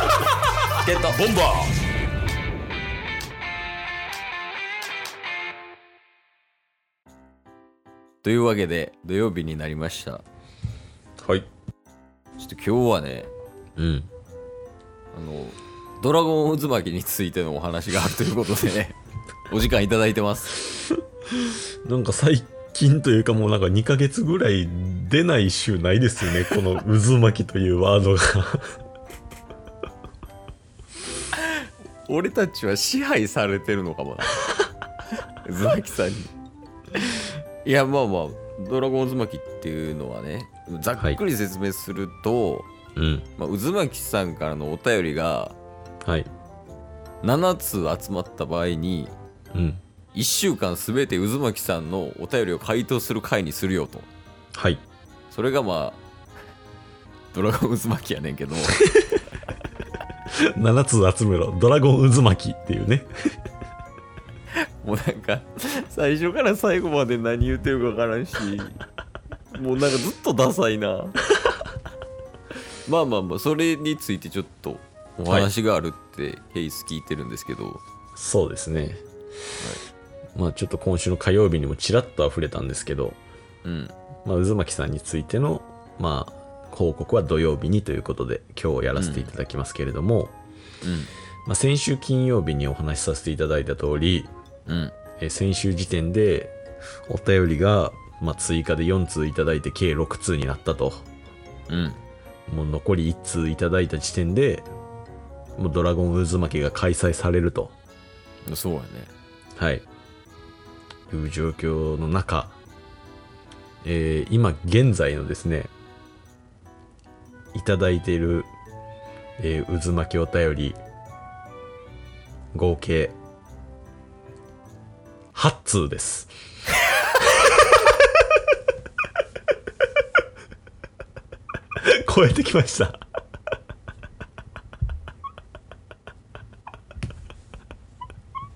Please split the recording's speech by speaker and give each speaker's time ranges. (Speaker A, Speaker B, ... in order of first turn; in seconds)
Speaker A: 0.8-1.2, 8.2-10.2, 12.4-13.3, 15.1-18.9, 19.5-20.6, 31.3-34.4, 35.4-36.3, 36.9-42.7, 43.4-45.5, 47.2-49.1, 50.1-54.1, 55.3-56.0, 57.3-58.8, 64.8-68.8, 69.5-71.2, 72.8-77.8, 83.6-83.9, 88.9-89.3, 90.8-91.1, 94.7-94.9, 101.7-102.0, 108.5-109.1
Speaker B: 1.1-1.7, 13.8-14.1, 21.8-28.8, 43.0-43.2, 46.0-46.3, 49.5-49.8, 54.5-54.8, 60.5-63.1, 78.2-79.0, 80.3-83.2, 84.2-90.3, 91.5-94.3, 95.2-96.5, 97.1-101.0, 102.5-104.7, 105.6-107.7, 109.6-109.8, 111.1-112.5, 113.8-115.7, 117.5-118.5, 119.4-120.8, 122.5-123.1, 125.3-126.3, 127.5-127.8, 131.8-133.0